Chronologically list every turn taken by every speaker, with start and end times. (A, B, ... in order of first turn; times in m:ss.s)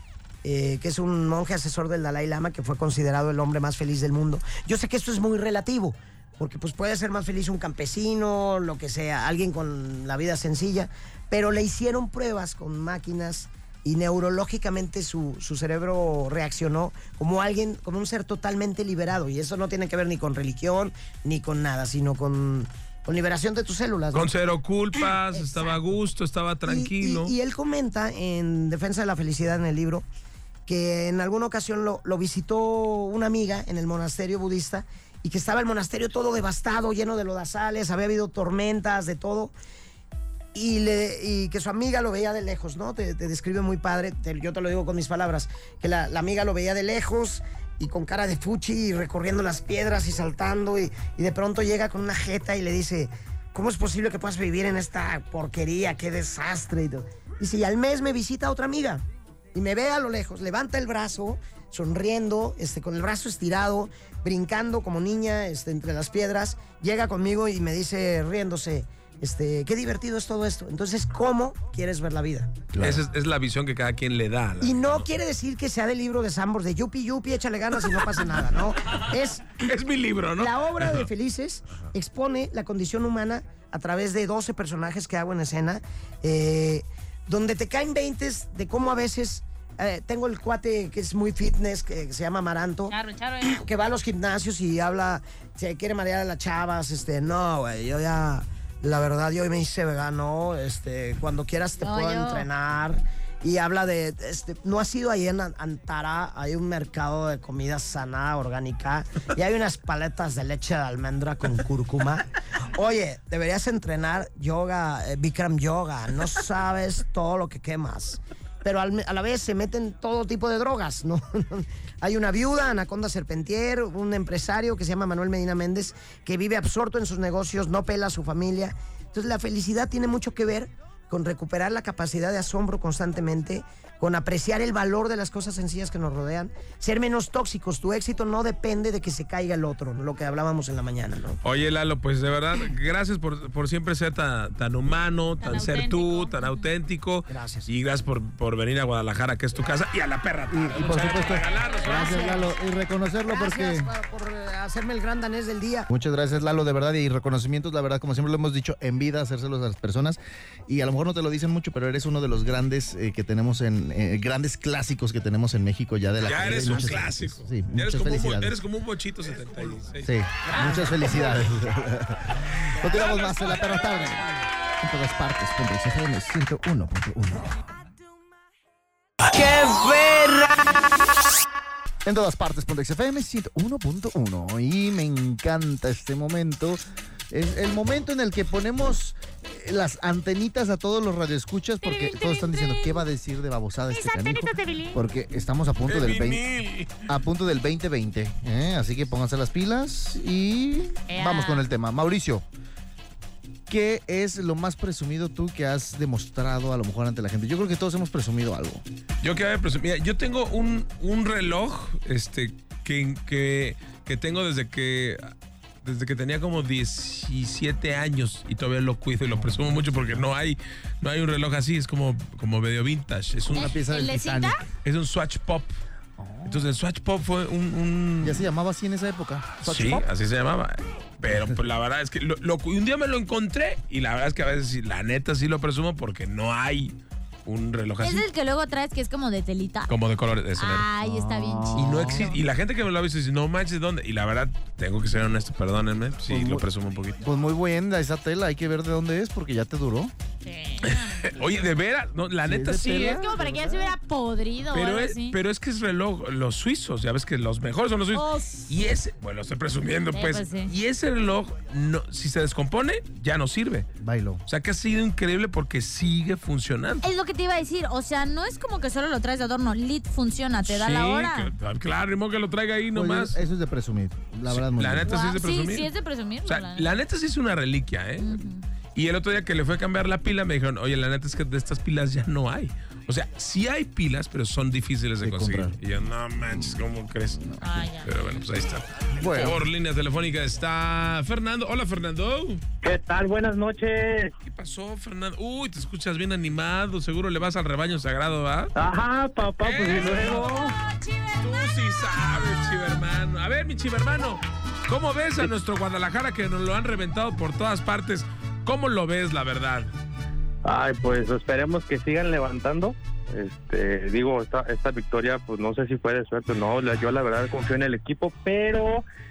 0:00.4-0:24.3 A
0:24.1-0:27.3 B
0:25.3-0:25.8 A
0:26.7-0:30.1 A
0:30.7-0:39.5 A
0:40.5-1:12.7 A
1:12.7-1:13.0 C
1:12.8-1:15.1 B
1:14.6-1:19.6 A
1:19.6-1:21.1 B
1:20.4-2:21.4 A
1:32.9-1:33.6 D
1:41.8-1:42.5 D
2:21.4-2:32.3 B
2:25.4-2:26.6 D
2:27.3-2:27.7 A
2:30.5-2:33.9 C
2:31.9-2:32.4 A
2:33.3-2:35.9 A
2:35.9-2:48.6 C
2:46.2-2:51.0 B
2:50.0-2:54.3 C
2:50.5-2:51.1 A
2:54.8-2:57.6 C
3:02.0-3:06.8 C
3:07.3-3:16.4 C
3:11.8-3:13.0 D
3:13.9-3:15.0 D
3:15.9-3:17.1 B
3:17.1-3:22.4 C
3:21.1-3:21.7 D
3:23.7-3:28.8 C
3:29.2-3:35.3 B
3:35.8-3:43.7 B
3:39.3-3:39.8 C
3:43.5-3:44.6 C
3:43.6-3:44.6 D
3:44.8-3:45.7 B
3:46.2-3:46.7 C
3:46.4-3:48.5 B
3:48.2-3:50.0 C
3:49.6-3:58.3 B
3:51.3-3:51.6 C
3:58.0-3:59.9 D
3:59.9-4:00.9 B
4:00.6-4:02.4 D
4:01.0-4:02.3 C
4:01.8-4:07.2 B
4:06.3-4:06.7 C
4:07.2-4:10.1 C
4:10.4-4:11.3 D
4:10.8-4:13.2 B
4:12.4-4:14.0 C
4:12.9-4:15.4 D
4:14.7-4:23.9 B
4:18.1-4:18.7 D
4:20.1-4:20.7 D
4:24.0-4:24.4 C
4:24.5-4:27.0 B
4:27.0-4:31.5 D
4:30.6-4:33.4 B
4:32.9-4:35.1 C
4:34.5-4:35.9 B
4:35.1-4:37.0 D
4:36.4-4:38.4 B
4:38.2-4:38.6 D
4:39.0-4:47.5 B
4:45.2-4:45.8 C
4:46.5-4:46.8 C
4:47.3-4:47.8 C
4:47.6-4:48.1 D
4:48.0-4:52.6 B
4:49.2-4:49.6 C
4:52.8-4:54.3 E
4:54.4-4:58.7 B
4:58.8-5:00.8 E
4:59.6-5:00.7 B
5:01.4-5:09.9 B
5:10.6-5:19.0 E